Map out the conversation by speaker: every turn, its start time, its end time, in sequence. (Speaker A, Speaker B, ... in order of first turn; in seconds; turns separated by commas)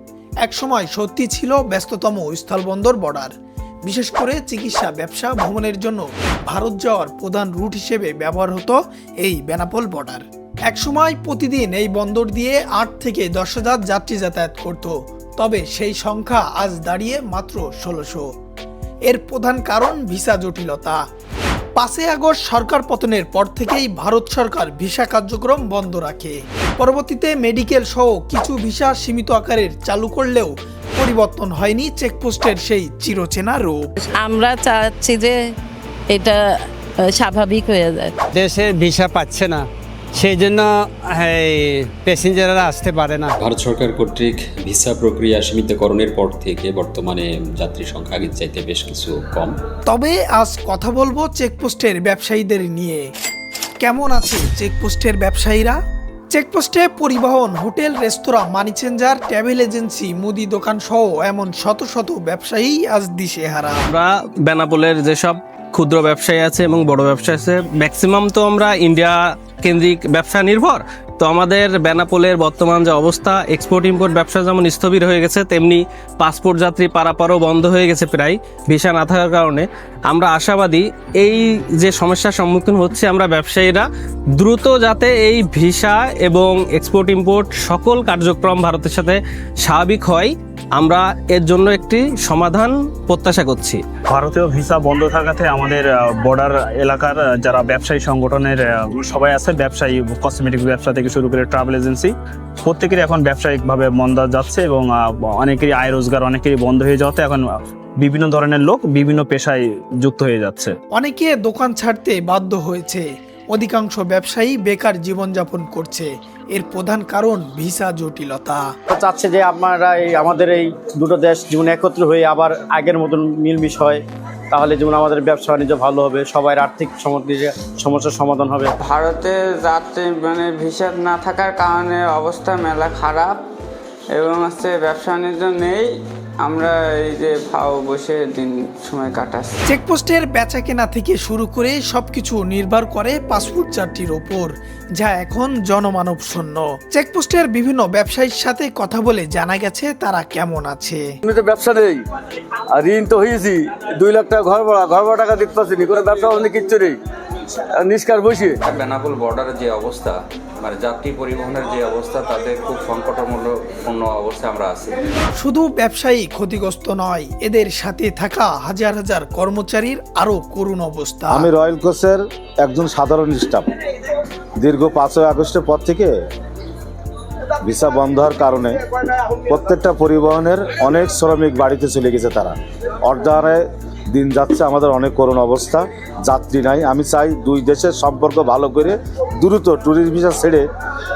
Speaker A: 0.4-3.3, Speaker A: 3.9-18.3, Speaker A: 19.1-21.0, Speaker A: 21.8-33.9, Speaker B: 34.2-35.3, Speaker B: 36.1-36.4, Speaker B: 37.1-38.1, Speaker C: 38.3-39.6, Speaker C: 40.1-43.3, Speaker D: 43.4-49.6, Speaker A: 49.9-53.0, Speaker A: 53.8-55.8, Speaker A: 56.3-63.9, Speaker E: 63.9-83.9, Speaker E: 84.4-93.8, Speaker F: 94.1-107.5, Speaker F: 108.0-110.7, Speaker A: 110.9-118.6, Speaker G: 118.9-124.0, Speaker G: 124.5-128.7, Speaker H: 128.8-133.4, Speaker H: 134.1-139.6, Speaker A: 139.7-151.0, Speaker I: 151.2-152.0, Speaker I: 152.7-157.0, Speaker I: 157.8-158.6, Speaker J: 158.7-164.9, Speaker A: 165.4-171.5, Speaker K: 171.3-173.7, Speaker K: 174.6-176.1, Speaker K: 177.6-190.6